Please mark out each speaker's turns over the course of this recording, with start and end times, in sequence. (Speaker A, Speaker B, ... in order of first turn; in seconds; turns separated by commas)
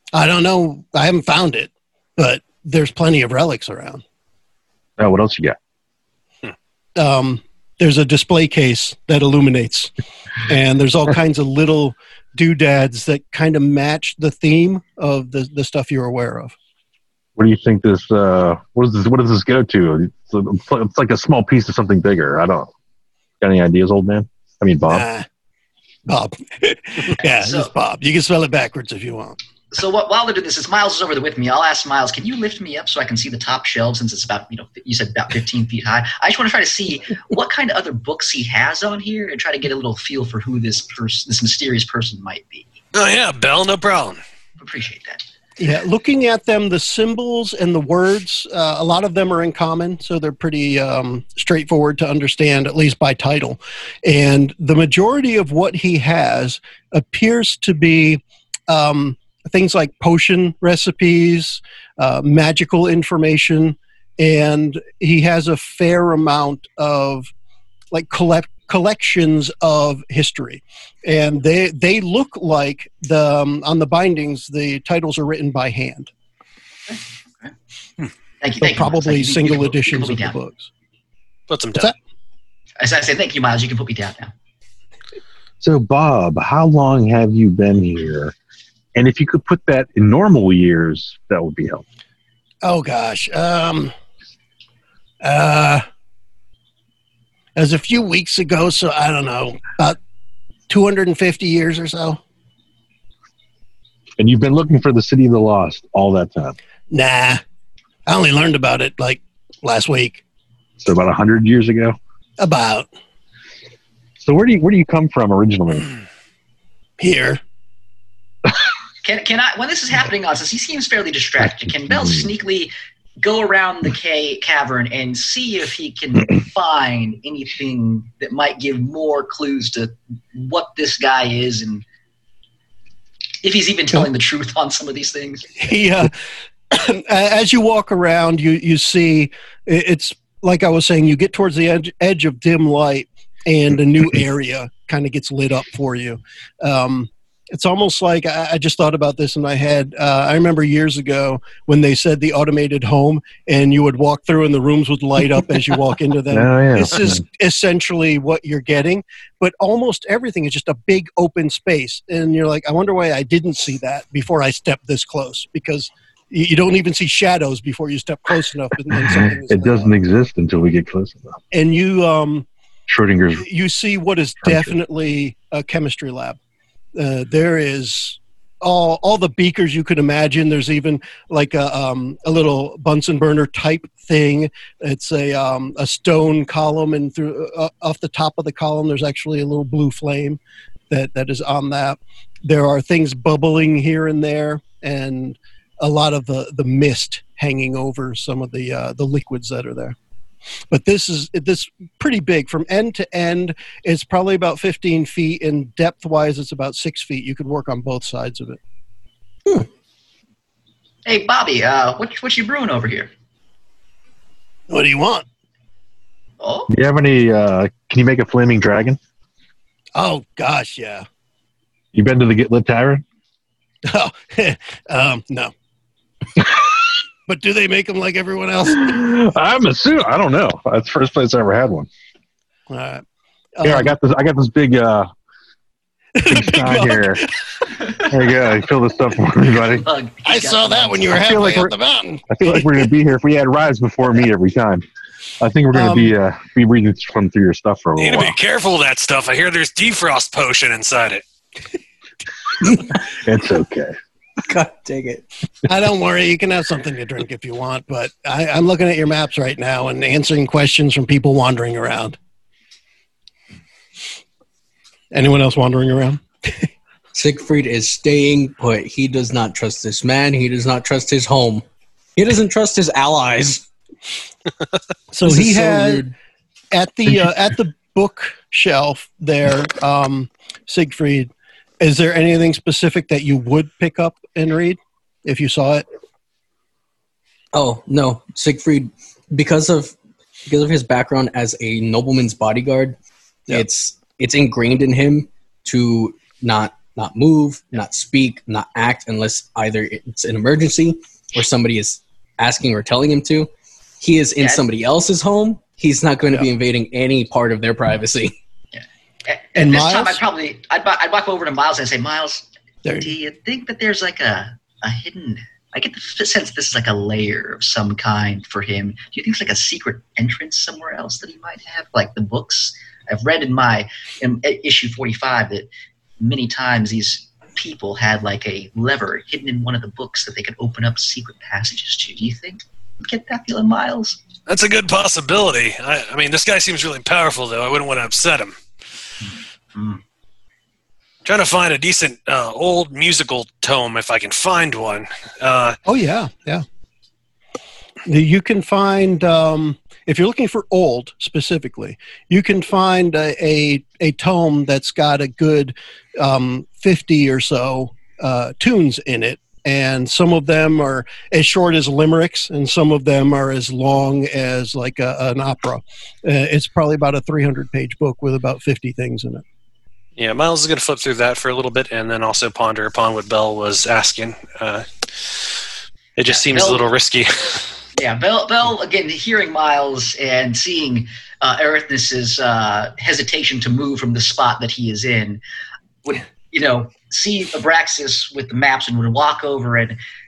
Speaker A: 0.1-4.0, Speaker B: 5.0-5.6, Speaker A: 7.0-16.5, Speaker B: 17.4-22.7, Speaker B: 23.4-25.1, Speaker A: 24.9-25.3, Speaker A: 26.1-29.4, Speaker C: 27.1-27.7, Speaker C: 29.7-42.7, Speaker D: 42.9-44.2, Speaker C: 44.6-45.2, Speaker A: 45.6-67.3, Speaker A: 67.9-76.1, Speaker C: 76.9-77.5, Speaker C: 78.4-80.4, Speaker A: 78.6-80.7, Speaker D: 81.5-81.9, Speaker C: 82.8-84.3, Speaker B: 85.6-88.3, Speaker B: 88.9-91.8, Speaker A: 92.6-93.9, Speaker A: 95.2-95.8, Speaker A: 97.6-100.0, Speaker A: 100.7-102.2, Speaker B: 104.2-106.6, Speaker A: 106.9-107.4, Speaker A: 108.1-110.2, Speaker B: 110.8-112.0, Speaker A: 112.4-112.9, Speaker B: 114.2-115.9, Speaker A: 117.0-117.4, Speaker C: 119.0-131.8, Speaker C: 133.4-135.7, Speaker A: 135.6-136.1, Speaker A: 136.7-169.9, Speaker B: 156.3-157.2, Speaker B: 169.0-171.4, Speaker A: 171.5-172.5, Speaker B: 172.9-173.4, Speaker A: 173.4-176.4, Speaker B: 174.4-174.8, Speaker A: 176.9-199.9, Speaker A: 200.7-208.6, Speaker C: 211.1-213.1, Speaker A: 214.7-215.2, Speaker C: 216.4-216.7, Speaker B: 216.7-219.0, Speaker A: 219.9-221.1, Speaker B: 221.9-223.0, Speaker A: 223.8-225.5, Speaker A: 227.3-229.0, Speaker B: 228.8-231.9, Speaker A: 232.7-233.0, Speaker A: 233.6-233.9, Speaker B: 233.6-235.1, Speaker A: 236.1-237.3, Speaker B: 236.2-237.3, Speaker B: 238.0-239.9, Speaker C: 239.7-241.4, Speaker A: 240.2-242.9, Speaker B: 241.1-241.7, Speaker B: 242.3-244.8, Speaker B: 245.4-248.4, Speaker A: 245.7-246.1, Speaker D: 248.0-251.2, Speaker B: 253.1-253.9, Speaker E: 254.4-255.2, Speaker A: 255.7-262.2, Speaker A: 265.1-266.7, Speaker E: 267.1-271.6, Speaker E: 272.1-273.6, Speaker A: 275.1-276.1, Speaker E: 275.2-276.1, Speaker A: 276.7-285.8, Speaker E: 287.5-289.9, Speaker E: 290.5-293.0, Speaker E: 293.5-303.5, Speaker E: 304.0-308.4, Speaker C: 304.4-304.6, Speaker C: 308.7-334.2, Speaker A: 309.6-310.2, Speaker A: 312.9-313.1, Speaker D: 334.5-338.6, Speaker C: 339.2-340.0, Speaker D: 341.2-345.8, Speaker A: 345.9-346.6, Speaker A: 348.1-369.4, Speaker D: 370.2-374.9, Speaker D: 376.2-377.6, Speaker C: 376.3-376.9, Speaker C: 377.9-385.4, Speaker C: 386.0-390.0